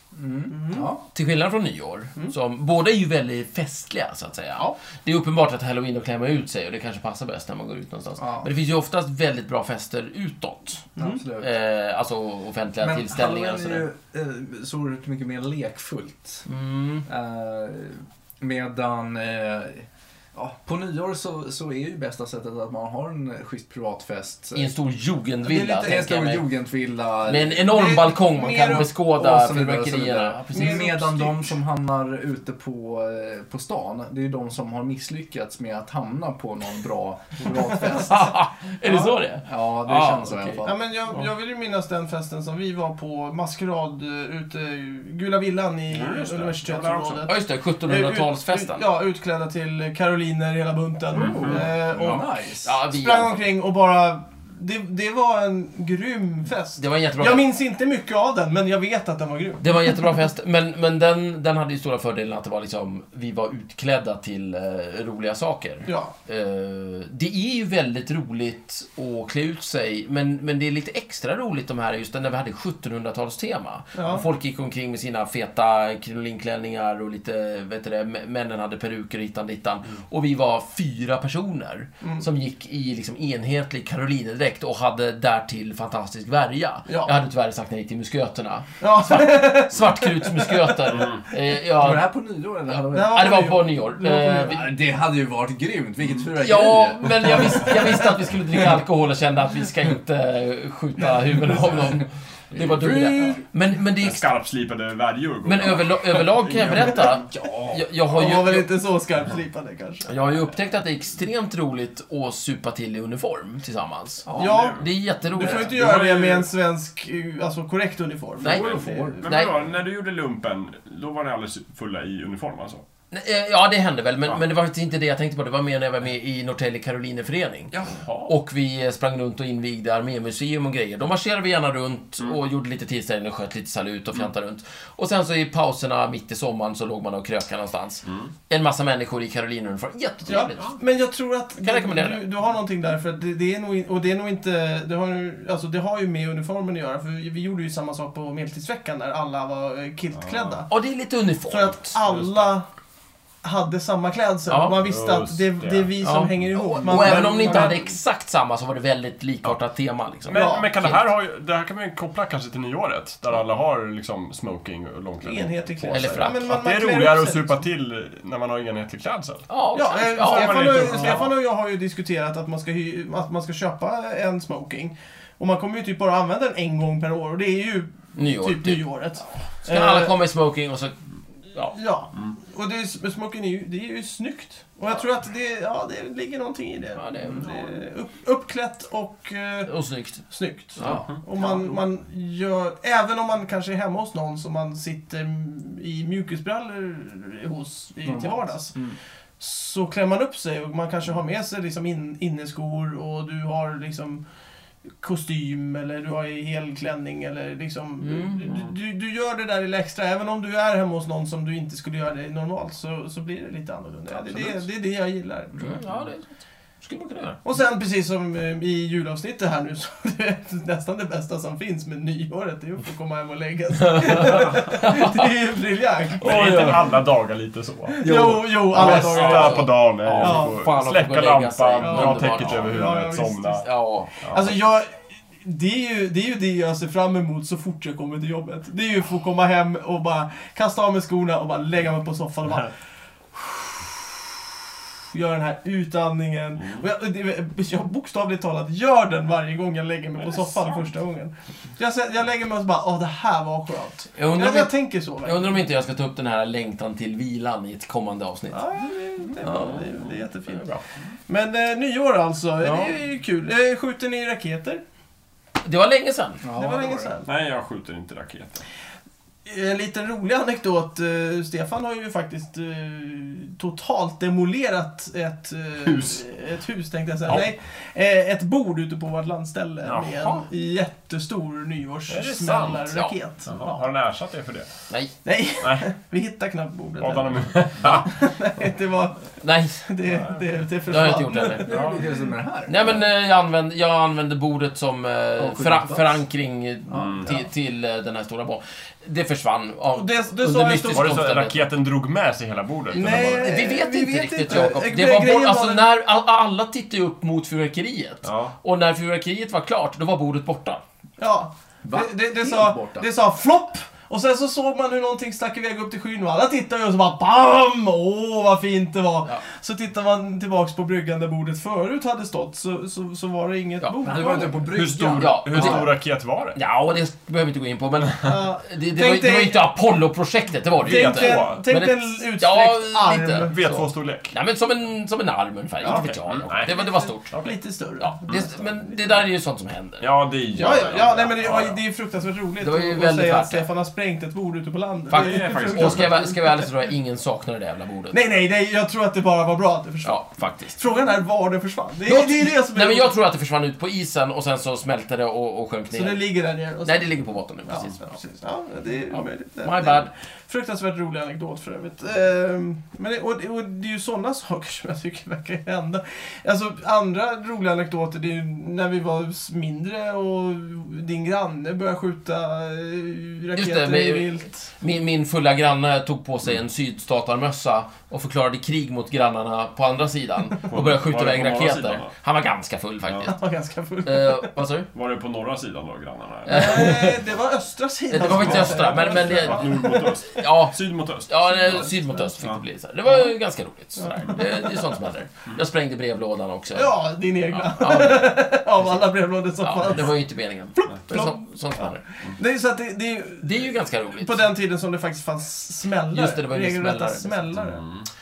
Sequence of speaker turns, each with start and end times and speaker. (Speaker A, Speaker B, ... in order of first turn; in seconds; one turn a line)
Speaker A: 0.1-1.0
Speaker B: 0.5-0.9
Speaker C: 1.1-13.9
Speaker A: 8.2-8.5
Speaker B: 10.9-11.2
Speaker A: 11.0-11.5
Speaker A: 12.8-16.4
Speaker C: 16.4-17.1
Speaker A: 17.1-24.7
Speaker C: 24.5-26.5
Speaker B: 25.4-26.0
Speaker A: 25.7-27.8
Speaker C: 27.2-30.9
Speaker B: 27.7-28.9
Speaker A: 28.8-38.4
Speaker B: 30.5-31.5
Speaker C: 38.0-40.7
Speaker A: 39.4-40.8
Speaker B: 40.6-52.3
Speaker D: 45.9-47.3
Speaker C: 47.2-48.8
Speaker D: 51.1-51.7
Speaker A: 51.1-52.7
Speaker C: 52.6-53.4
Speaker B: 52.9-60.0
Speaker C: 56.8-57.4
Speaker C: 59.6-92.1
Speaker B: 65.8-66.1
Speaker B: 73.9-74.3
Speaker B: 82.0-82.2
Speaker B: 86.9-87.1
Speaker B: 88.8-91.1
Speaker D: 91.0-91.2
Speaker A: 91.8-93.3
Speaker B: 92.9-94.6
Speaker C: 93.1-94.6
Speaker A: 94.5-98.1
Speaker C: 96.4-104.3
Speaker A: 102.5-103.4
Speaker D: 104.0-107.7
Speaker C: 105.4-108.7
Speaker A: 107.3-107.7
Speaker B: 108.1-110.1
Speaker C: 110.0-115.8
Speaker B: 114.3-114.8
Speaker D: 114.3-116.5
Speaker B: 115.3-119.2
Speaker C: 118.4-119.5
Speaker D: 118.4-122.8
Speaker A: 118.8-119.2
Speaker C: 123.1-140.8
Speaker D: 127.7-128.3
Speaker D: 138.1-138.3
Speaker B: 140.3-150.7
Speaker C: 141.6-142.2
Speaker D: 150.1-150.6
Speaker C: 150.7-151.8
Speaker B: 151.5-152.7
Speaker D: 152.0-152.5
Speaker B: 153.4-157.8
Speaker C: 154.5-154.8
Speaker D: 154.8-157.8
Speaker C: 156.0-161.0
Speaker D: 160.2-169.5
Speaker B: 160.3-160.7
Speaker B: 165.2-167.6
Speaker C: 165.9-166.5
Speaker C: 169.5-171.2
Speaker B: 169.7-180.1
Speaker D: 170.1-171.3
Speaker C: 178.2-178.9
Speaker C: 179.6-181.0
Speaker B: 181.7-198.7
Speaker C: 186.9-187.8
Speaker C: 189.7-190.2
Speaker C: 190.8-191.0
Speaker A: 190.8-191.7
Speaker A: 198.0-199.0
Speaker B: 199.4-204.2
Speaker B: 205.0-215.8
Speaker C: 208.0-208.6
Speaker D: 214.3-214.6
Speaker C: 215.6-217.4
Speaker B: 217.4-226.8
Speaker C: 223.8-225.3
Speaker D: 226.2-233.7
Speaker C: 226.2-226.9
Speaker B: 227.9-230.6
Speaker A: 228.0-228.6
Speaker C: 228.1-232.9
Speaker B: 231.8-233.7
Speaker C: 233.6-234.2
Speaker D: 234.2-234.5
Speaker B: 234.3-242.7
Speaker B: 243.3-243.9
Speaker B: 245.1-255.6
Speaker D: 246.6-246.8
Speaker D: 250.2-250.9
Speaker C: 254.2-258.6
Speaker B: 258.5-260.7
Speaker C: 259.4-259.9
Speaker D: 259.9-260.8
Speaker B: 261.3-264.8
Speaker C: 262.6-262.9
Speaker C: 265.6-266.4
Speaker A: 266.4-267.1
Speaker B: 266.5-267.3
Speaker D: 267.2-268.6
Speaker B: 269.4-283.9
Speaker D: 275.8-276.2
Speaker D: 279.8-280.4
Speaker D: 282.1-284.7
Speaker C: 282.9-283.1
Speaker B: 285.2-289.3
Speaker D: 285.6-285.9
Speaker D: 287.0-288.1
Speaker C: 289.4-289.8
Speaker B: 289.8-292.0
Speaker D: 290.1-290.6
Speaker C: 290.9-291.8
Speaker A: 291.6-293.0
Speaker D: 291.7-292.0
Speaker C: 292.7-301.6
Speaker A: 295.4-296.2
Speaker A: 296.9-297.3
Speaker D: 297.0-297.3
Speaker B: 299.9-301.2
Speaker D: 300.9-303.5
Speaker B: 302.9-305.9
Speaker C: 302.9-310.8
Speaker D: 308.2-308.6
Speaker B: 311.2-324.7
Speaker A: 311.8-313.1
Speaker A: 324.0-325.5
Speaker D: 324.7-326.6
Speaker C: 325.1-326.0
Speaker C: 326.5-337.4
Speaker B: 328.2-329.7
Speaker D: 330.8-331.6
Speaker B: 330.8-333.6
Speaker D: 333.5-334.3
Speaker B: 335.8-339.2
Speaker D: 335.8-336.7
Speaker D: 337.3-337.6
Speaker C: 338.0-340.1
Speaker D: 340.0-341.8
Speaker B: 340.5-346.7
Speaker C: 342.6-343.6
Speaker C: 345.1-348.2
Speaker D: 345.1-346.2
Speaker B: 348.1-350.2
Speaker C: 350.0-350.8
Speaker B: 350.7-353.1
Speaker C: 352.1-356.3
Speaker B: 355.9-374.7
Speaker C: 356.8-358.1
Speaker C: 359.1-360.1
Speaker C: 373.5-383.4
Speaker D: 380.7-382.1
Speaker B: 383.2-384.5
Speaker C: 384.0-384.9
Speaker D: 384.9-387.1
Speaker C: 386.5-387.2
Speaker B: 386.5-390.2
Speaker C: 388.1-396.9
Speaker D: 388.2-392.6
Speaker B: 391.7-392.0
Speaker B: 394.0-394.9
Speaker B: 396.7-400.2
Speaker C: 397.5-398.4
Speaker C: 399.6-402.0
Speaker B: 400.8-407.8
Speaker C: 403.4-404.5
Speaker C: 406.1-407.6
Speaker D: 407.5-408.1